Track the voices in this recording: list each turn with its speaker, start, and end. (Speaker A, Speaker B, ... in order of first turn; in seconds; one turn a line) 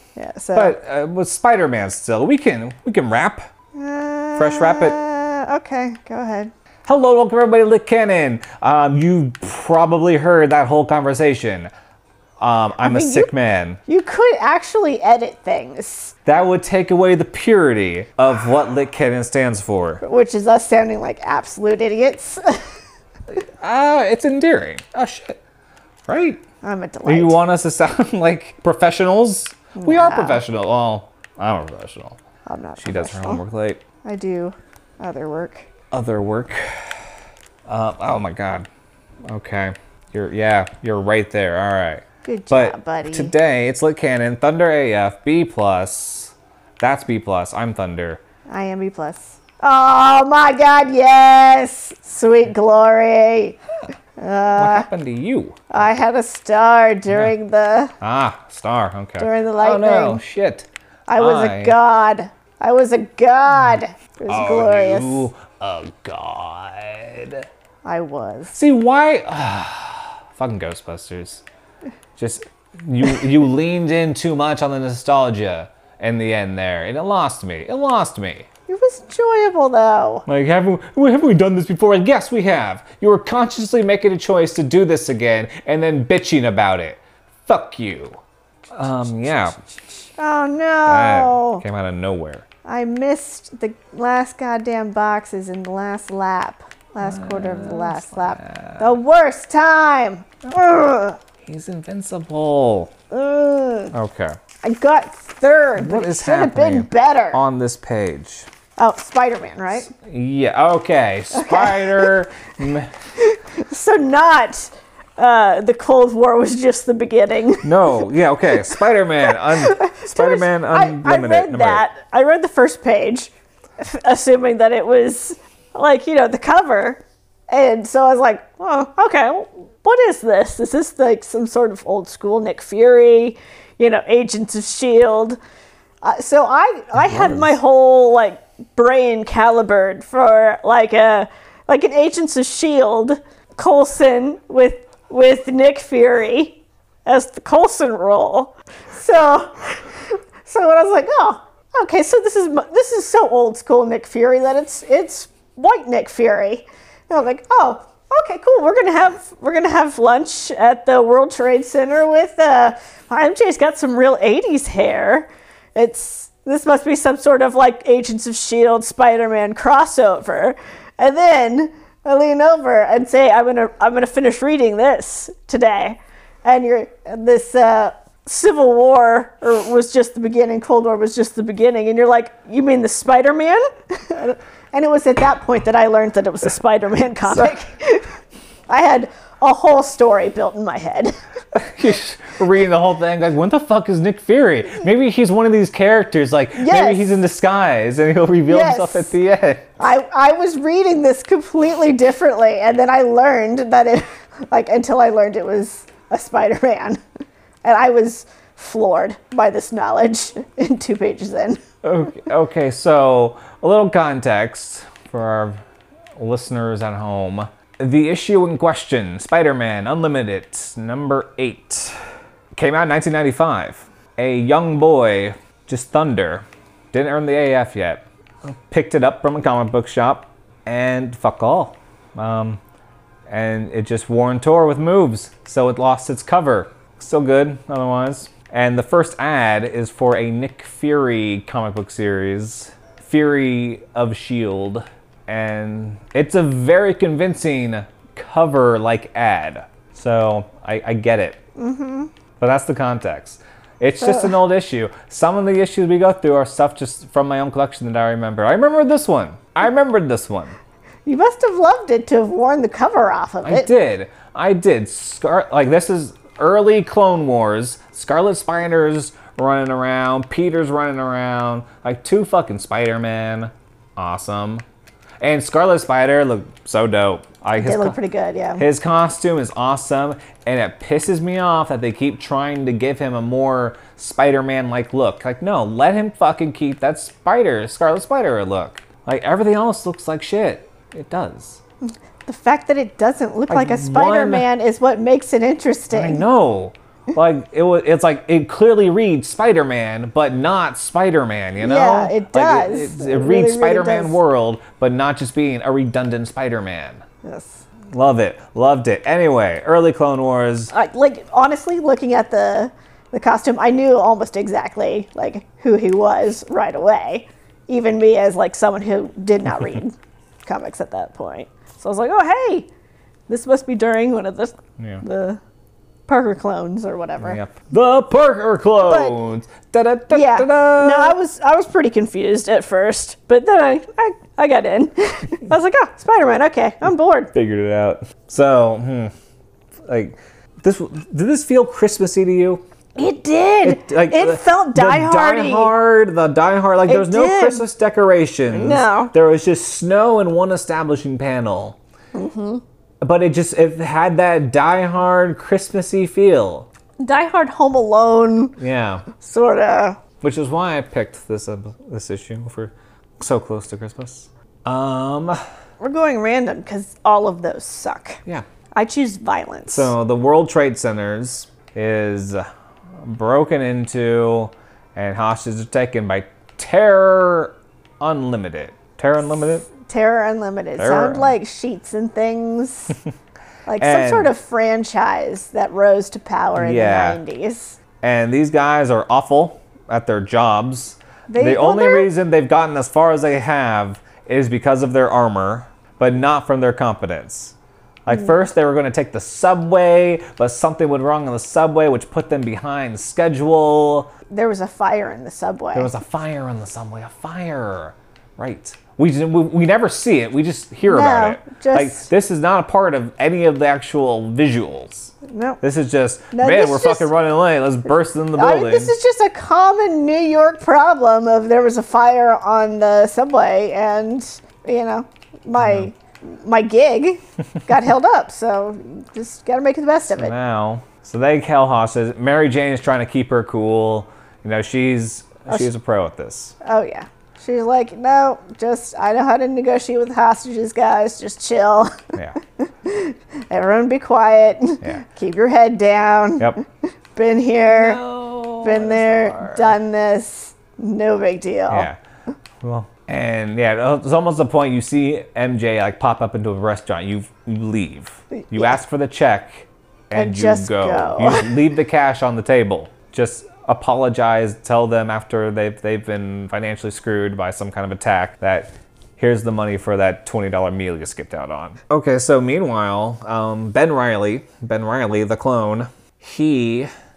Speaker A: 0.1-0.8
Speaker B: 0.5-3.5
Speaker A: 3.7-6.5
Speaker B: 4.3-5.0
Speaker B: 6.8-11.7
Speaker B: 12.4-13.8
Speaker A: 12.8-13.3
Speaker A: 13.9-16.1
Speaker B: 16.2-20.0
Speaker A: 20.0-22.7
Speaker B: 23.3-25.4
Speaker B: 26.1-26.4
Speaker A: 26.6-27.4
Speaker B: 27.0-32.2
Speaker A: 29.7-30.4
Speaker A: 32.5-33.4
Speaker B: 32.8-33.8
Speaker A: 34.0-35.7
Speaker B: 35.9-36.9
Speaker B: 37.7-38.7
Speaker B: 39.3-48.2
Speaker A: 42.2-43.3
Speaker A: 48.5-53.6
Speaker A: 54.2-54.9
Speaker B: 54.5-55.7
Speaker A: 55.7-57.9
Speaker B: 58.0-61.8
Speaker A: 59.2-60.2
Speaker A: 61.1-65.3
Speaker B: 64.3-67.5
Speaker A: 67.8-68.5
Speaker B: 68.5-71.4
Speaker B: 72.2-78.5
Speaker A: 78.7-80.2
Speaker B: 80.2-88.2
Speaker B: 88.7-89.5
Speaker A: 89.9-91.6
Speaker B: 90.9-92.4
Speaker A: 92.6-101.2
Speaker B: 97.0-99.0
Speaker B: 101.4-102.9
Speaker A: 103.1-103.9
Speaker B: 103.9-104.3
Speaker A: 104.6-107.4
Speaker B: 105.8-108.5
Speaker A: 108.8-109.9
Speaker B: 109.7-112.9
Speaker A: 111.3-112.2
Speaker A: 113.2-118.1
Speaker B: 117.6-121.8
Speaker A: 119.3-135.4
Speaker A: 136.0-188.1
Speaker B: 136.9-137.5
Speaker B: 187.2-187.5
Speaker A: 188.7-191.2
Speaker B: 191.5-199.7
Speaker A: 196.5-197.2
Speaker A: 198.5-199.1
Speaker A: 199.8-207.0
Speaker A: 207.6-211.6
Speaker B: 211.8-215.6
Speaker B: 216.2-222.0
Speaker B: 222.5-232.6
Speaker B: 233.3-251.4
Speaker A: 251.6-252.1
Speaker B: 252.4-260.6
Speaker A: 254.0-254.3
Speaker A: 261.1-263.7
Speaker B: 263.4-274.6
Speaker B: 275.2-278.0
Speaker A: 277.6-278.6
Speaker B: 278.6-291.6
Speaker A: 292.2-296.2
Speaker B: 293.5-294.4
Speaker B: 295.9-307.0
Speaker A: 301.6-304.2
Speaker A: 307.2-307.6
Speaker B: 307.9-310.7
Speaker A: 310.7-322.7
Speaker A: 323.3-325.4
Speaker B: 324.8-325.0
Speaker A: 326.1-327.4
Speaker B: 327.2-331.2
Speaker A: 328.8-329.2
Speaker A: 330.1-337.3
Speaker B: 337.3-339.1
Speaker B: 339.9-342.6
Speaker A: 342.9-345.7
Speaker B: 343.6-351.8
Speaker A: 346.9-347.6
Speaker A: 348.5-349.1
Speaker A: 352.1-352.6
Speaker B: 353.0-356.7
Speaker A: 357.0-358.6
Speaker B: 358.6-359.1
Speaker A: 359.1-360.0
Speaker B: 360.2-365.4
Speaker A: 365.8-368.2
Speaker A: 368.7-369.9
Speaker B: 369.7-372.5
Speaker B: 373.0-379.7
Speaker A: 379.7-382.9
Speaker B: 380.8-381.3
Speaker A: 383.6-387.8
Speaker B: 383.8-384.3
Speaker B: 386.5-387.2
Speaker B: 388.0-404.1
Speaker A: 391.3-392.1
Speaker A: 404.3-405.9
Speaker B: 405.7-418.9
Speaker A: 410.9-412.1
Speaker A: 415.3-415.6
Speaker A: 416.3-417.1
Speaker A: 418.3-430.3
Speaker B: 425.6-425.9
Speaker B: 430.1-436.5
Speaker A: 436.6-442.1
Speaker A: 442.6-446.6
Speaker A: 447.1-448.0
Speaker B: 447.7-449.8
Speaker A: 448.6-451.9
Speaker B: 451.7-452.0
Speaker B: 452.6-476.9
Speaker A: 458.3-458.8
Speaker A: 460.1-461.6